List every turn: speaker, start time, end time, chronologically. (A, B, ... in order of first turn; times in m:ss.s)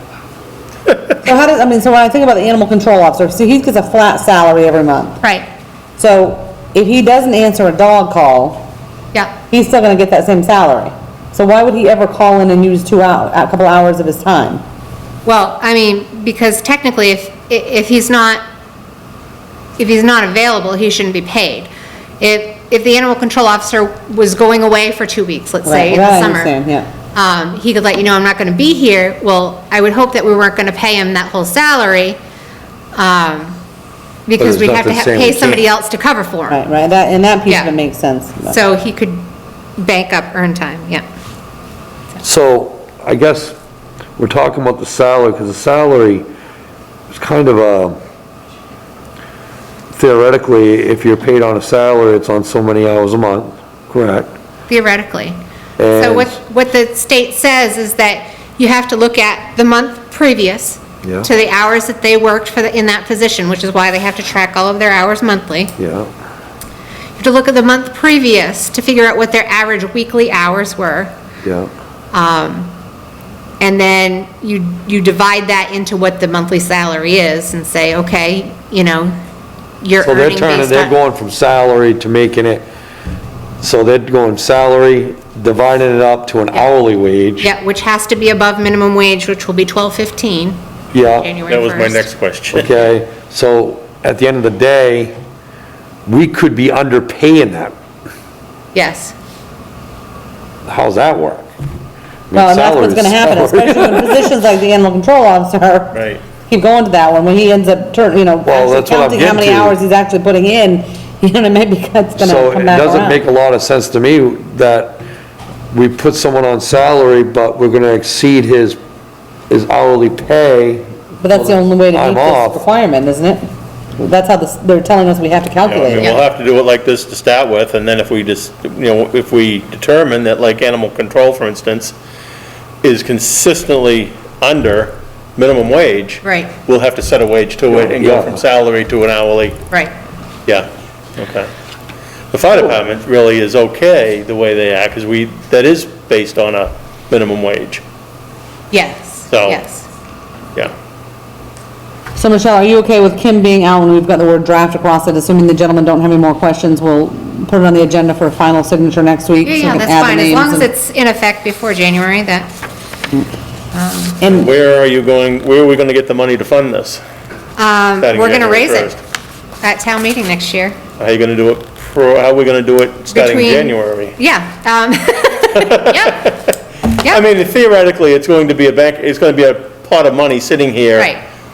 0:01.2-0:05.2 A
0:06.0-0:08.7 A
0:09.5-0:14.6 A
0:15.2-0:18.4 B
0:19.8-0:21.7 B
0:22.2-0:26.5 B
0:25.6-0:26.9 A
0:27.1-0:32.2 B
0:32.9-0:33.6 B
0:34.2-0:36.6 B
0:34.4-0:35.6 C
0:36.5-0:38.6 A
0:38.4-0:41.0 B
0:42.2-0:43.6 C
0:44.2-0:46.3 C
0:47.1-0:48.0 C
0:49.9-0:54.3 C
0:54.7-0:55.4 B
0:55.8-0:56.3 C
0:55.9-1:05.7 B
1:01.0-1:01.3 C
1:05.8-1:06.1 C
1:07.2-1:11.1 B
1:11.4-1:11.7 C
1:12.1-1:12.7 B
1:13.6-1:19.1 B
1:19.8-1:20.9 B
1:20.0-1:22.7 C
1:23.6-1:27.5 C
1:27.4-1:32.1 B
1:30.9-1:31.3 C
1:31.5-1:32.7 D
1:32.5-1:35.2 C
1:36.0-1:37.7 C
1:38.7-1:39.1 B
1:40.6-1:41.5 C
1:42.3-1:44.3 C
1:42.3-1:53.2 A
1:45.9-1:46.2 D
1:48.4-1:49.8 C
1:52.2-1:55.0 C
1:55.7-1:58.8 C
1:59.5-2:02.6 C
2:01.2-2:03.4 A
2:04.0-2:06.2 A
2:05.6-2:12.0 D
2:12.8-2:19.6 D
2:16.2-2:16.5 B
2:17.8-2:18.4 C
2:20.4-2:21.5 D
2:22.3-2:27.8 D
2:28.7-2:29.9 B
2:29.3-2:29.6 D
2:32.2-2:40.7 A
2:39.4-2:42.5 B
2:43.7-2:44.2 B
2:44.2-2:44.5 A
2:44.2-2:47.0 D
2:47.6-2:48.9 B
2:48.0-2:49.0 D
2:49.6-2:50.8 B
2:51.0-2:54.2 D
2:53.1-2:56.3 B
2:55.5-2:56.4 D
2:57.0-3:01.1 D
3:01.0-3:01.2 B